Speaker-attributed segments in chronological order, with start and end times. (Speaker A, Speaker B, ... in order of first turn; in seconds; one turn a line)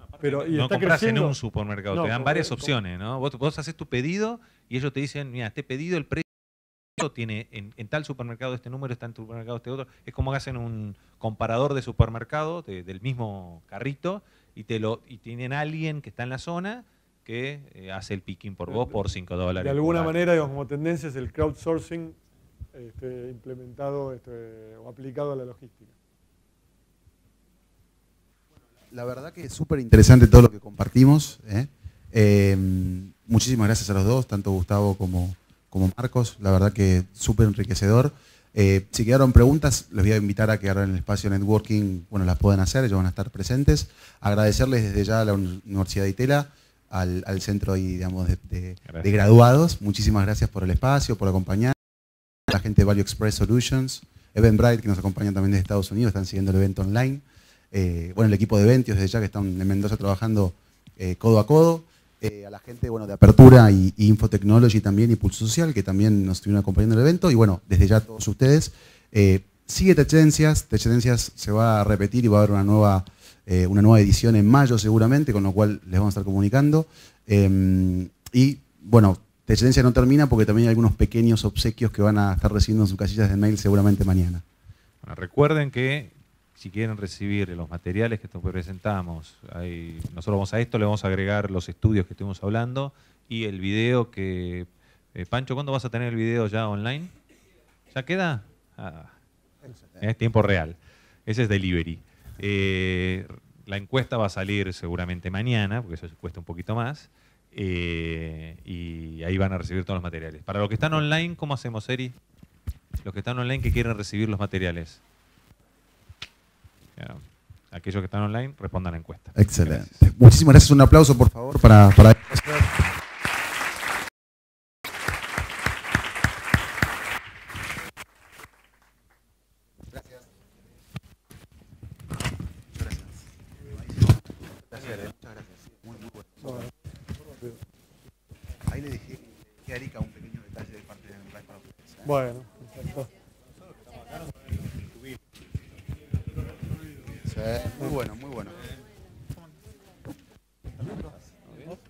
Speaker A: 0.1-6.2
Speaker B: 0.2-1.4
Speaker B: 1.9-2.7
Speaker A: 7.0-20.1
Speaker B: 18.7-19.0
Speaker B: 19.6-22.2
Speaker B: 22.7-25.9
Speaker C: 28.9-51.7
Speaker C: 52.5-84.4
Speaker A: 85.0-97.1
Speaker A: 97.9-99.2
Speaker C: 99.7-100.0
Speaker A: 100.0-112.2
Speaker A: 113.0-115.0
Speaker A: 117.0-120.0
Speaker C: 119.3-122.7
Speaker C: 129.9-130.3
Speaker C: 132.7-136.7
Speaker B: 136.4-136.7
Speaker C: 138.6-142.1
Speaker B: 142.0-143.1
Speaker C: 147.2-148.6